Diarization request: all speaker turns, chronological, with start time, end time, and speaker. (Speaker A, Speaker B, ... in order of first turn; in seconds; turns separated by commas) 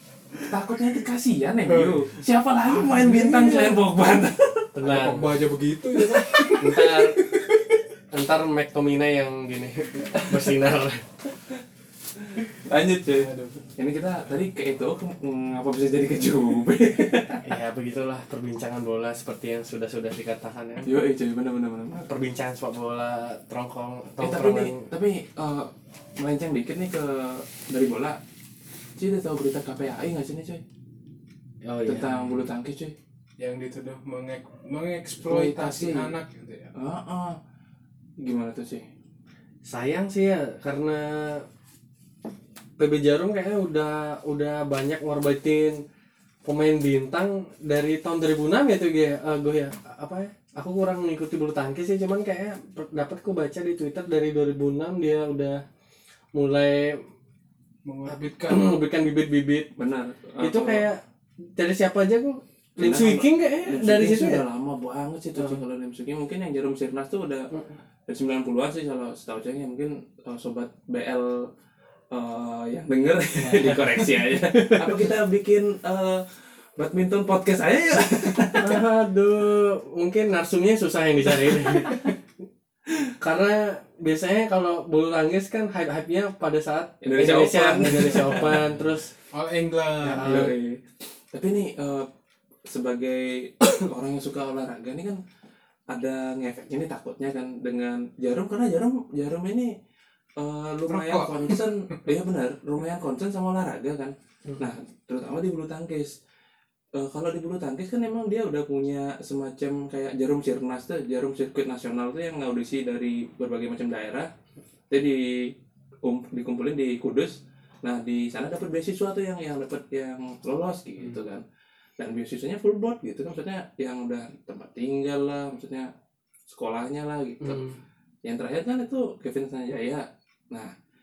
Speaker A: 0.5-4.7, Speaker B: 1.6-2.0, Speaker B: 2.6-3.8, Speaker C: 4.7-5.3, Speaker B: 4.8-7.5, Speaker C: 6.6-7.2, Speaker C: 8.1-11.1, Speaker A: 12.3-17.4, Speaker B: 13.2-13.6, Speaker C: 17.4-20.9, Speaker A: 20.8-22.0, Speaker C: 21.9-24.9, Speaker A: 24.2-28.2, Speaker A: 29.0-30.6, Speaker C: 31.6-32.4, Speaker A: 31.9-32.9, Speaker B: 33.4-36.7, Speaker A: 35.2-36.1, Speaker A: 36.7-37.4, Speaker A: 38.2-38.9, Speaker C: 39.6-41.4, Speaker C: 42.8-45.8, Speaker C: 46.4-55.6, Speaker C: 56.3-57.0, Speaker B: 57.8-58.7, Speaker C: 58.5-59.7, Speaker A: 59.8-60.8, Speaker C: 60.4-61.0, Speaker C: 61.6-64.4, Speaker A: 62.8-67.5, Speaker A: 68.1-71.5, Speaker A: 72.1-78.8, Speaker C: 73.4-75.0, Speaker C: 78.6-82.1, Speaker A: 81.3-82.0, Speaker C: 83.2-89.1, Speaker A: 87.0-88.6, Speaker B: 89.3-90.5, Speaker C: 90.0-90.5, Speaker A: 90.2-90.8, Speaker A: 91.3-92.1, Speaker A: 92.7-95.2, Speaker A: 95.9-99.7, Speaker A: 100.4-106.1, Speaker B: 100.9-101.6, Speaker A: 106.9-114.3, Speaker A: 114.9-121.4, Speaker A: 122.0-125.9, Speaker A: 126.5-127.7, Speaker C: 127.4-127.8, Speaker A: 128.2-130.7